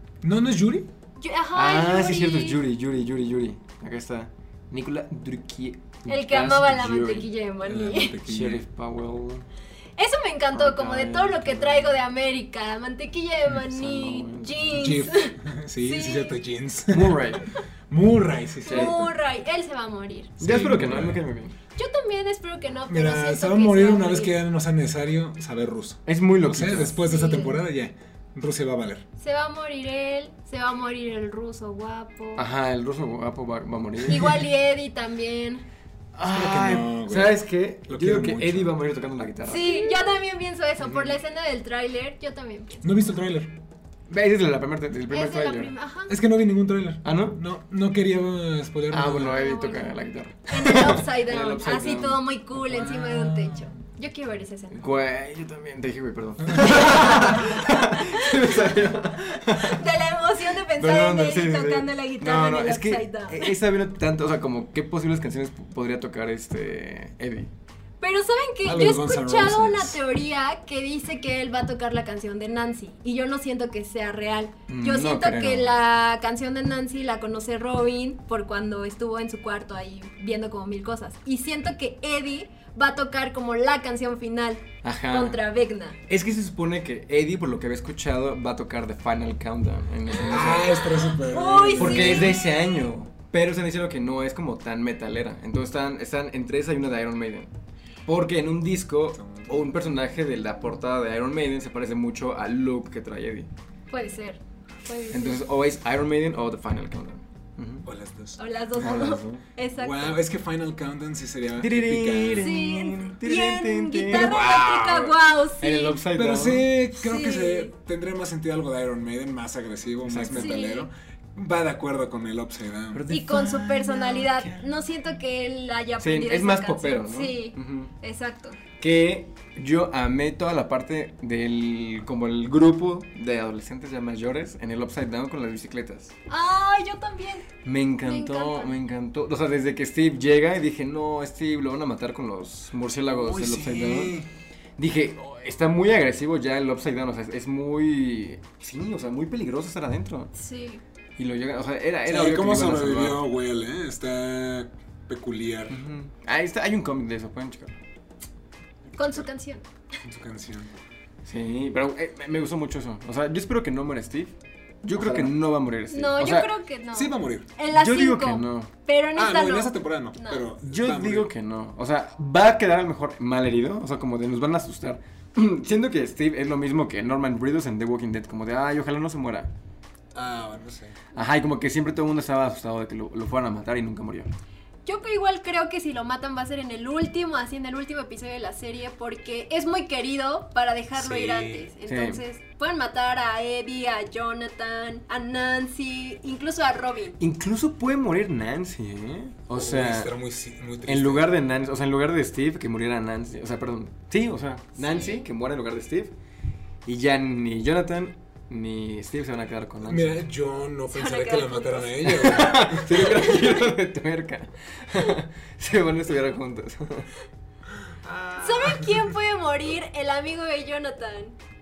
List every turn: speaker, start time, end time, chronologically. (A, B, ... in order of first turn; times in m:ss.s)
0:00.2-0:00.9 A
0:01.2-0:02.6 B
0:01.5-0:07.3 C
0:06.1-0:08.2 B
0:07.6-0:08.6 A
0:08.2-0:09.5 C
0:10.0-0:16.4 B
0:10.5-0:12.0 C
0:13.5-0:14.8 C
0:14.7-0:19.1 A
0:16.9-0:17.5 C
0:18.6-0:20.4 B
0:18.7-0:19.0 C
0:20.4-0:21.2 A
0:20.4-0:21.6 C
0:21.8-0:24.4 B
0:22.9-0:29.0 A
0:26.1-0:27.0 C
0:27.0-0:27.6 B
0:29.2-0:32.5 B
0:32.4-0:34.4 C
0:34.1-0:35.6 B
0:36.2-0:39.9 C
0:36.3-0:38.8 A
0:39.5-0:42.8 B
0:40.8-0:41.2 C
0:42.8-0:43.5 A
0:44.1-0:45.7 C
0:45.1-0:46.2 B
0:46.1-0:49.4 A
0:47.0-0:47.4 C
0:48.9-0:52.2 C
0:49.2-0:50.0 B
0:50.5-0:54.9 B
0:52.6-0:53.7 A
0:54.7-0:59.9 C
0:56.5-0:56.8 A
0:56.7-0:58.8 B
0:59.5-1:03.6 B
1:00.8-1:07.5 C
1:08.0-1:26.0 B
1:08.6-1:10.0 A
1:14.7-1:15.7 C
1:24.8-1:25.4 C
1:26.1-1:30.8 C
1:30.1-1:32.4 B
1:30.2-1:32.4 A
1:31.8-1:37.5 C
1:38.1-1:43.5 C
1:39.2-1:39.7 A
1:43.9-1:45.4 B
1:45.1-1:47.9 C
1:47.8-1:49.1 A
1:48.4-1:50.2 B
1:48.8-1:49.4 C
1:49.8-1:52.6 A
1:51.6-1:54.6 C
1:52.4-1:56.0 B
1:54.1-1:55.1 A
1:55.6-1:56.7 C
1:56.1-2:03.0 A
1:57.0-1:57.7 B
2:00.1-2:00.6 C
2:00.3-2:00.9 B
2:02.9-2:04.7 C
2:03.1-2:08.6 B
2:06.0-2:07.9 C
2:08.8-2:16.2 C
2:16.3-2:17.5 B
2:17.6-2:24.2 C
2:18.0-2:18.8 B
2:23.1-2:24.3 A
2:24.8-2:30.3 C
2:30.4-2:30.8 B
2:31.2-2:33.2 C
2:32.1-2:35.8 A
2:35.7-2:37.8 C
2:38.9-2:39.3 A
2:39.0-2:39.6 B
2:40.0-2:40.7 A
2:41.2-2:46.5 C
2:45.0-2:45.3 A
2:45.9-2:50.5 B
2:46.9-2:47.5 A
2:47.7-2:48.7 C
2:49.2-2:51.3 A
2:50.6-2:59.5 C
3:00.1-3:01.0 A
3:01.1-3:04.3 C
3:04.8-3:17.2 B
3:11.0-3:11.7 A
3:11.9-3:12.2 C
3:17.2-3:20.1 C
3:19.5-3:21.3 A
3:20.9-3:26.1 C
3:24.8-3:25.3 B
3:26.9-3:30.2 C
3:29.8-3:33.1 A
3:30.9-3:33.6 B
3:32.1-3:37.1 C
3:38.0-3:39.1 A
3:38.4-3:41.4 B